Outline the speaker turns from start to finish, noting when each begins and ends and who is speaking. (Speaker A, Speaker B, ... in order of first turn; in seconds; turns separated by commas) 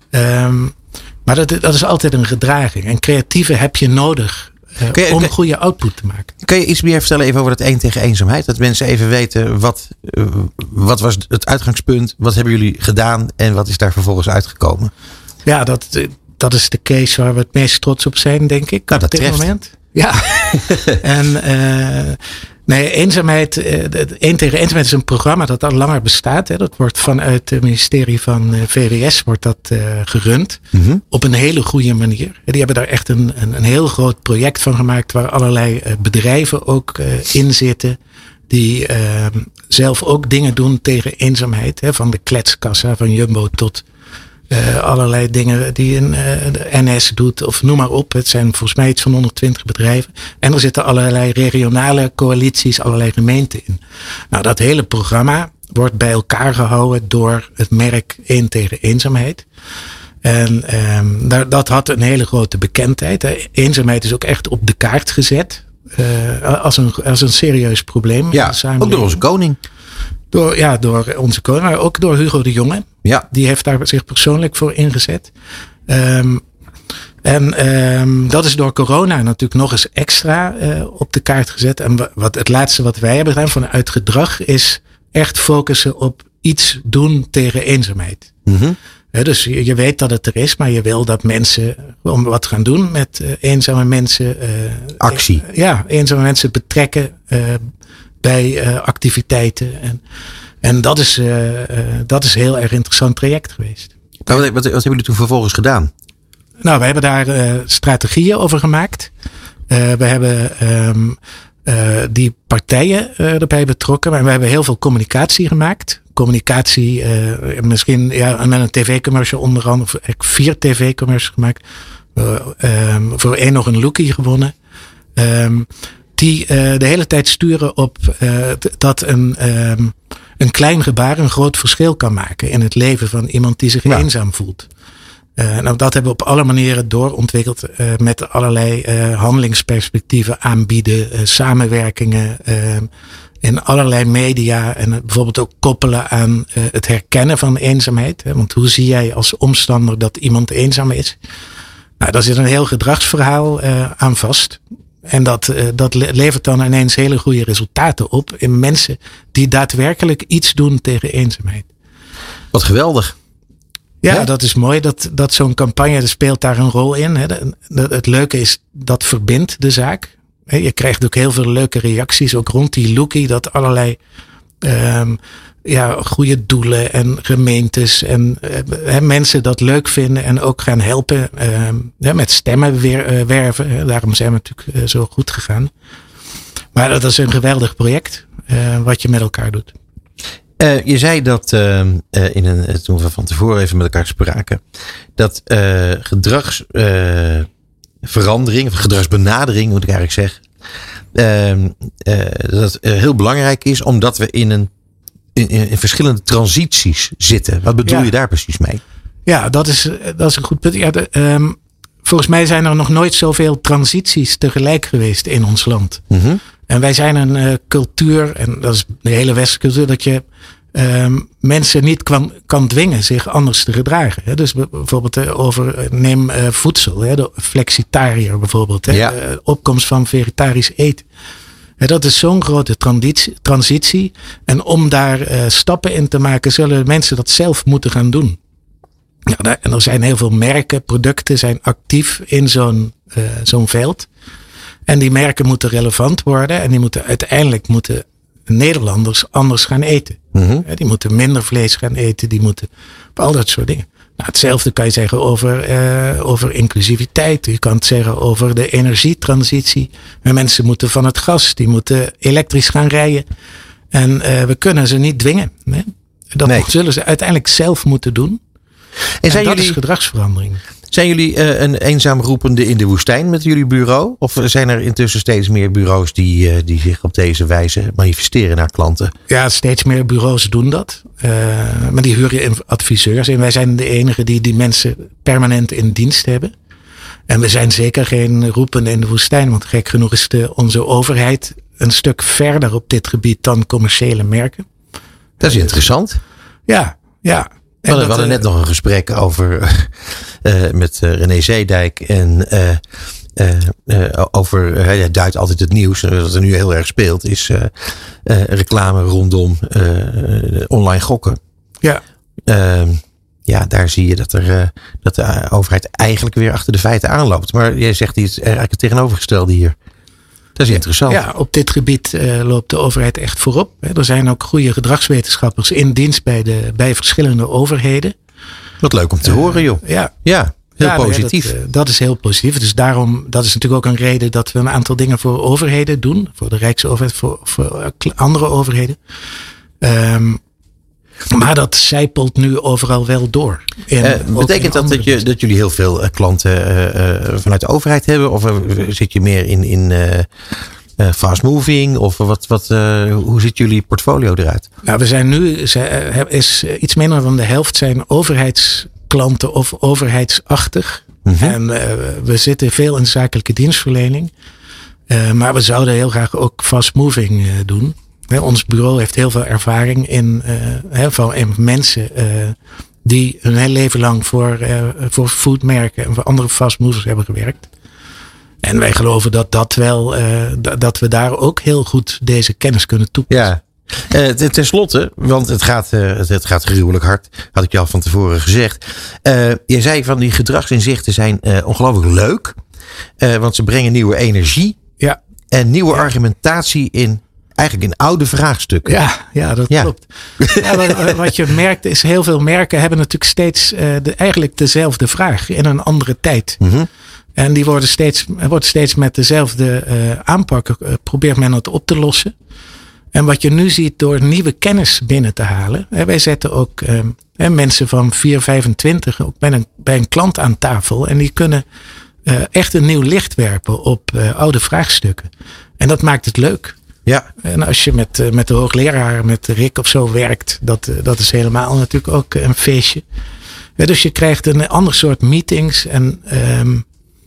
Speaker A: 0.1-6.3, Speaker B: 4.9-5.3, Speaker B: 6.4-14.9, Speaker A: 15.4-38.0, Speaker B: 18.9-19.5, Speaker B: 30.7-31.0, Speaker A: 38.5-43.9, Speaker A: 44.5-59.5, Speaker A: 60.2-69.2, Speaker B: 68.3-69.6, Speaker A: 70.3-75.3, Speaker A: 75.9-76.4, Speaker A: 77.2-88.3, Speaker B: 88.5-88.8, Speaker A: 89.1-97.7, Speaker B: 95.0-95.4, Speaker A: 98.2-100.0, Speaker A: 100.6-103.9, Speaker B: 104.3-105.9, Speaker A: 106.6-109.1, Speaker A: 109.7-121.6, Speaker A: 122.2-124.5, Speaker A: 125.2-134.7, Speaker A: 135.4-142.9, Speaker A: 143.4-151.2, Speaker A: 152.0-161.7, Speaker B: 162.5-163.2, Speaker A: 164.0-174.0, Speaker A: 174.6-185.7, Speaker A: 186.7-189.7, Speaker B: 190.6-194.6, Speaker B: 195.2-197.5, Speaker B: 198.0-200.4, Speaker B: 201.1-204.7, Speaker B: 205.3-208.8, Speaker A: 207.9-208.1, Speaker A: 209.3-216.0, Speaker B: 216.1-216.4, Speaker A: 216.7-231.1, Speaker B: 228.9-229.2, Speaker A: 231.8-238.4, Speaker A: 239.3-244.1, Speaker A: 244.9-263.2, Speaker B: 250.3-250.7, Speaker A: 263.9-268.4, Speaker B: 269.2-269.8, Speaker A: 269.3-270.6, Speaker B: 270.9-279.1, Speaker A: 279.3-286.5, Speaker A: 287.3-294.7, Speaker A: 295.4-295.8, Speaker B: 295.4-296.2, Speaker A: 296.7-298.4, Speaker B: 297.9-302.8, Speaker B: 303.4-307.7, Speaker B: 308.2-311.4, Speaker B: 312.5-319.8, Speaker B: 320.6-321.2, Speaker A: 321.1-328.1, Speaker B: 328.8-331.5, Speaker A: 329.2-330.1, Speaker A: 330.8-339.0, Speaker A: 339.8-340.4, Speaker A: 341.3-345.2, Speaker B: 344.0-350.3, Speaker B: 351.0-354.6, Speaker A: 354.8-364.3, Speaker B: 361.3-361.6, Speaker A: 365.1-377.7, Speaker A: 378.6-383.5, Speaker B: 383.3-392.6, Speaker B: 393.2-394.8, Speaker B: 395.5-399.0, Speaker A: 398.9-406.6, Speaker B: 399.7-401.2, Speaker B: 406.6-406.9, Speaker A: 407.4-412.3, Speaker A: 413.1-421.6, Speaker A: 422.2-426.8, Speaker A: 427.4-433.0, Speaker A: 433.8-436.9